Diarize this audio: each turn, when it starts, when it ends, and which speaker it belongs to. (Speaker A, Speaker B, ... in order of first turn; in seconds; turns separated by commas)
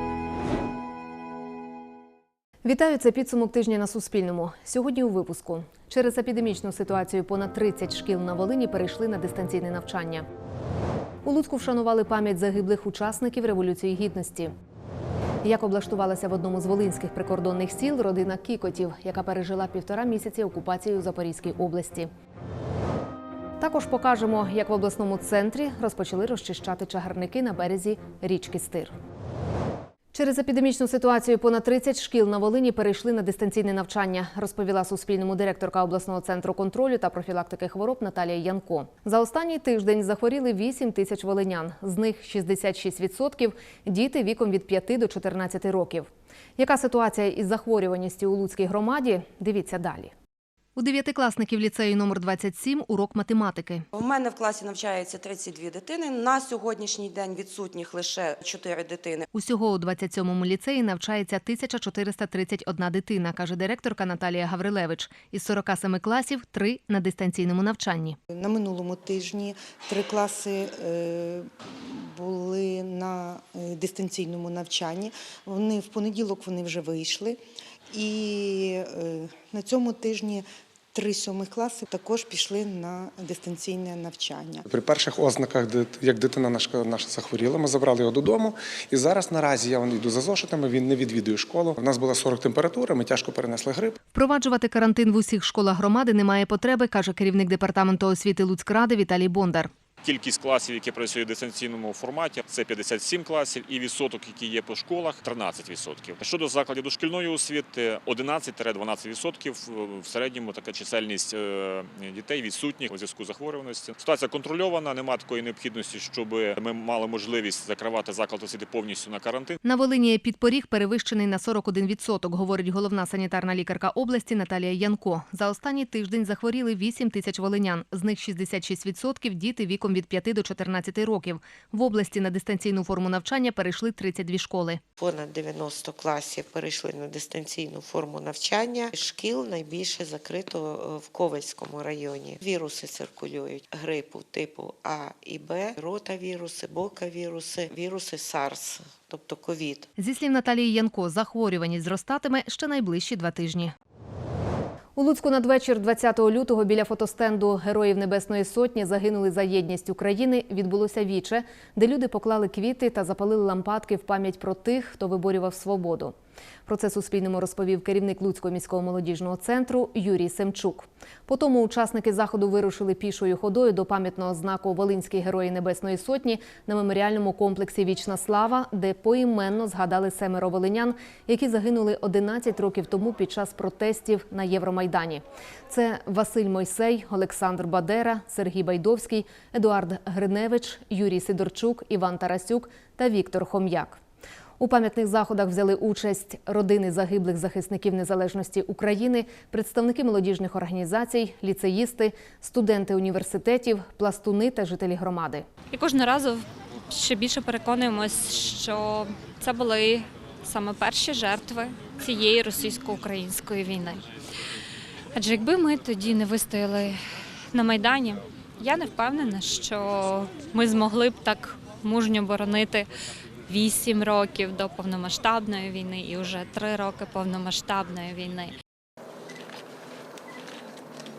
Speaker A: 2.6-10.2, Speaker A: 11.2-14.5, Speaker A: 15.4-22.1, Speaker A: 23.6-28.9, Speaker A: 30.1-50.1, Speaker A: 50.8-53.8, Speaker B: 54.0-59.2, Speaker A: 59.3-68.2, Speaker C: 68.3-77.4, Speaker C: 77.9-84.7, Speaker D: 84.7-93.9, Speaker A: 94.1-99.7, Speaker E: 100.0-119.6, Speaker A: 119.6-134.8, Speaker F: 135.0-149.9, Speaker A: 150.0-153.7, Speaker A: 154.9-166.1, Speaker A: 166.7-194.0, Speaker A: 194.6-205.4, Speaker G: 205.7-214.0, Speaker G: 215.1-216.9, Speaker G: 217.5-222.9, Speaker G: 223.5-228.5